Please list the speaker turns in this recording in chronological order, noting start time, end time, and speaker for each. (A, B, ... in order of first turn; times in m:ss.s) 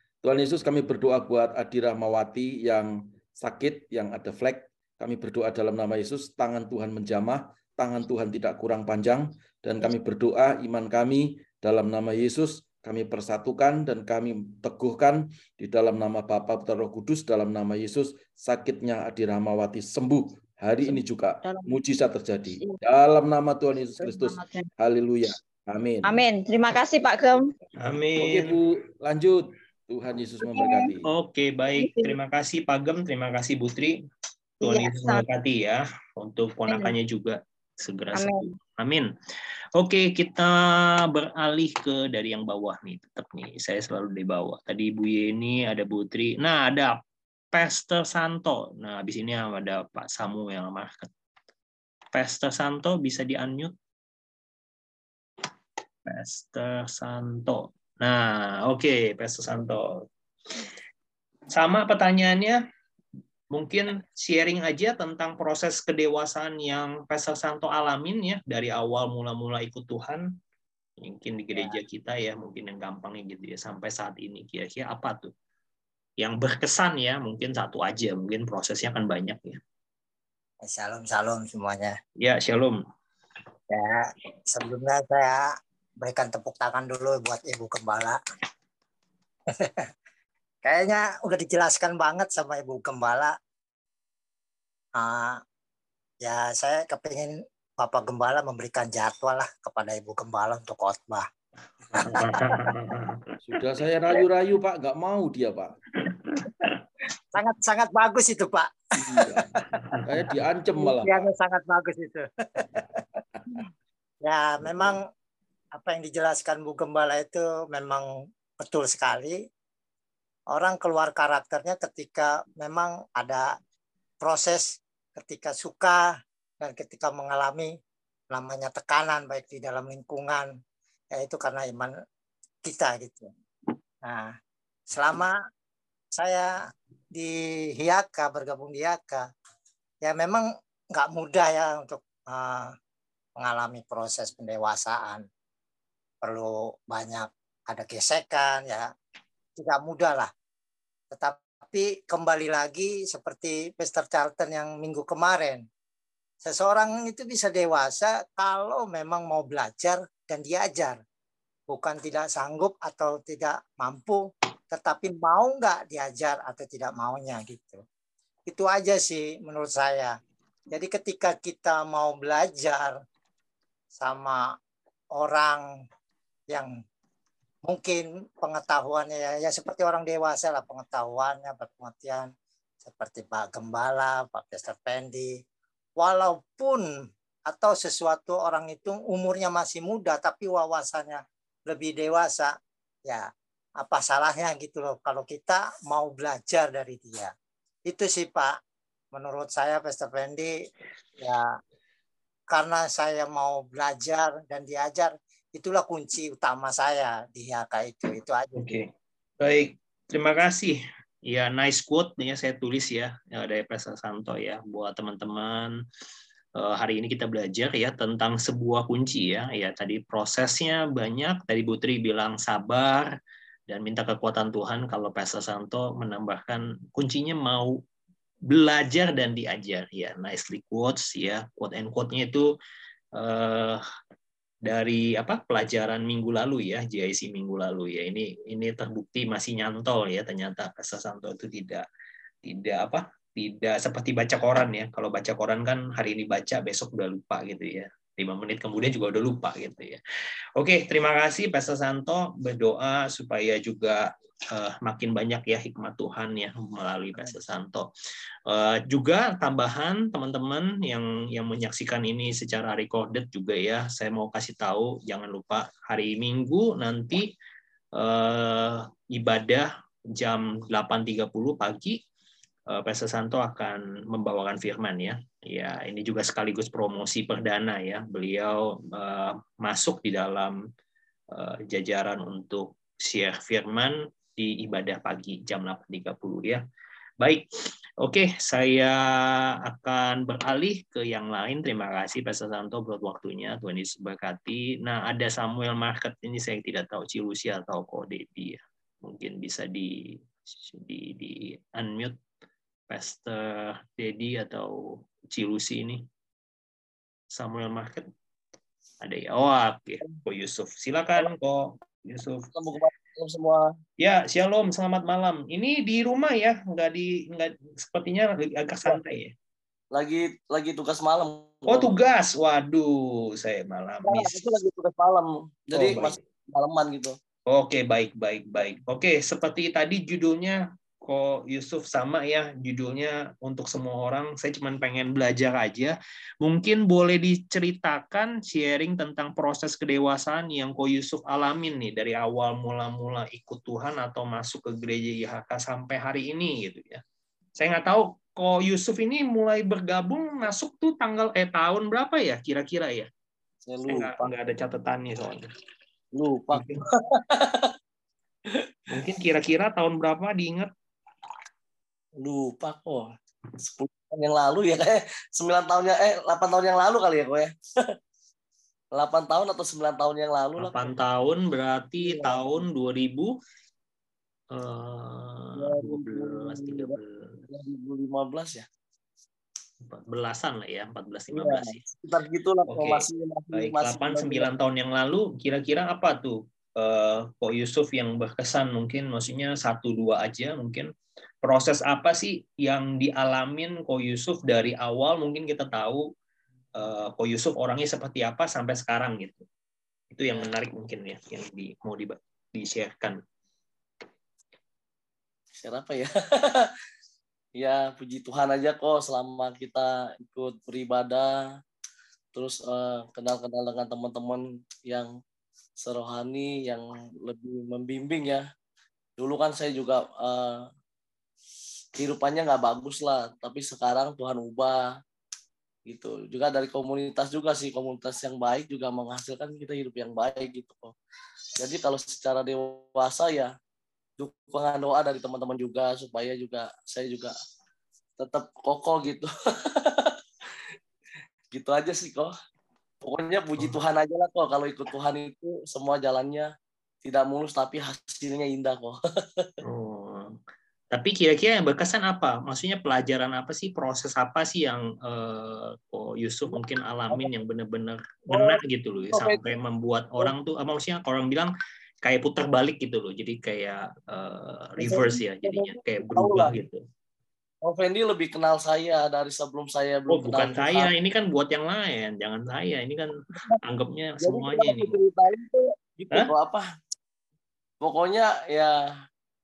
0:00.2-0:26.1 A
0:20.8-0:21.8 B
0:24.0-0:24.7 B
0:26.0-0:27.5 B
0:27.8-0:28.6 C
0:28.2-0:31.0 A
0:30.4-0:30.9 B
0:31.0-0:34.0 C
0:31.8-0:32.2 B
0:34.6-0:35.2 B
0:34.6-0:39.1 C
0:36.7-0:36.9 B
0:38.1-0:38.5 B
0:39.8-0:47.0 C
0:47.5-0:51.1 C
0:52.1-0:53.7 C
0:56.0-1:00.0 C
1:01.5-1:02.6 C
1:03.5-1:10.2 C
1:11.0-1:15.3 C
1:16.2-1:19.6 C
1:20.6-1:22.0 D
1:22.2-1:22.8 C
1:23.7-1:25.4 D
1:26.0-1:28.2 D
1:29.5-1:29.9 D
1:30.6-1:33.3 D
1:35.0-1:35.4 D
1:36.2-1:41.2 D
1:41.9-1:42.3 D
1:42.0-1:43.2 C
1:43.4-1:45.7 A
1:47.3-1:49.4 D
1:49.0-1:49.5 A
1:50.0-1:51.2 A
1:50.8-1:52.9 D
1:54.2-1:55.0 D
1:54.7-1:54.9 A
1:55.7-1:58.0 D
1:58.6-1:59.4 D
2:00.5-2:03.5 D
2:04.2-2:06.0 D
2:06.6-2:07.7 D
2:08.3-2:10.5 D
2:11.2-2:11.9 D
2:12.6-2:13.3 D
2:14.0-2:14.3 D
2:14.9-2:15.4 D
2:16.1-2:16.5 D
2:17.1-2:19.2 D
2:20.0-2:22.7 D
2:23.4-2:25.2 D
2:26.2-2:28.9 D
2:29.6-2:30.3 D
2:31.1-2:35.6 D
2:36.4-2:41.0 D
2:41.7-2:47.8 D
2:48.5-2:50.1 D
2:50.7-2:52.9 D
2:54.0-2:54.5 D
2:55.1-2:55.6 D
2:57.6-3:02.3 D
3:02.8-3:05.3 D
3:06.0-3:06.8 D
3:07.5-3:12.5 D
3:13.8-3:17.3 D
3:17.9-3:18.5 D
3:19.1-3:20.5 D
3:21.2-3:21.5 D
3:22.5-3:28.8 D
3:28.6-3:28.9 C
3:29.4-3:35.7 C
3:36.6-3:43.1 C
3:43.7-3:47.8 C
3:48.5-3:52.5 C
3:53.2-3:53.8 C
3:54.6-4:01.8 C
4:02.4-4:10.0 C
4:10.6-4:17.9 C
4:18.5-4:27.3 C
4:28.0-4:32.0 C
4:32.7-4:40.6 C
4:41.3-4:46.6 C
4:48.0-5:02.2 C
5:02.9-5:06.0 C
5:07.3-5:08.1 C
5:09.0-5:12.5 C
5:12.5-5:13.7 E
5:14.0-5:19.3 C
5:19.9-5:21.9 E
5:21.7-5:24.4 C
5:24.0-5:27.2 E
5:25.7-5:26.1 C
5:27.5-5:47.0 C
5:47.6-5:53.1 C
5:53.6-5:54.3 E
5:53.9-5:55.5 C
5:56.1-5:57.7 E
5:56.5-5:56.8 C
5:58.9-6:00.7 C
6:02.2-6:03.1 E
6:03.6-6:07.5 E
6:08.9-6:10.9 E
6:10.6-6:13.3 C
6:12.0-6:12.4 E
6:14.5-6:17.4 C
6:15.6-6:17.0 E
6:17.5-6:18.6 E
6:19.8-6:21.8 C
6:21.3-6:24.5 E
6:22.7-6:30.9 C
6:31.4-6:36.0 C
6:36.8-6:39.4 C
6:40.1-6:43.2 C
6:45.6-6:46.7 E
6:47.6-6:51.4 E
6:52.3-6:55.1 E
6:55.8-6:58.4 E
6:59.2-7:00.6 E
7:02.0-7:04.8 E
7:05.9-7:10.9 E
7:11.6-7:13.5 E
7:14.2-7:17.3 E
7:18.2-7:19.3 E
7:19.8-7:20.1 E
7:21.5-7:22.3 E
7:23.0-7:26.5 E
7:27.0-7:29.5 E
7:29.6-7:30.4 C
7:30.9-7:41.5 C
7:38.3-7:38.6 E
7:39.1-7:39.5 E
7:42.0-7:46.8 C
7:44.8-7:46.6 E
7:47.6-7:50.9 E
7:50.1-7:55.0 C
7:53.3-7:53.6 E
7:54.2-7:56.7 E
7:57.8-7:58.8 E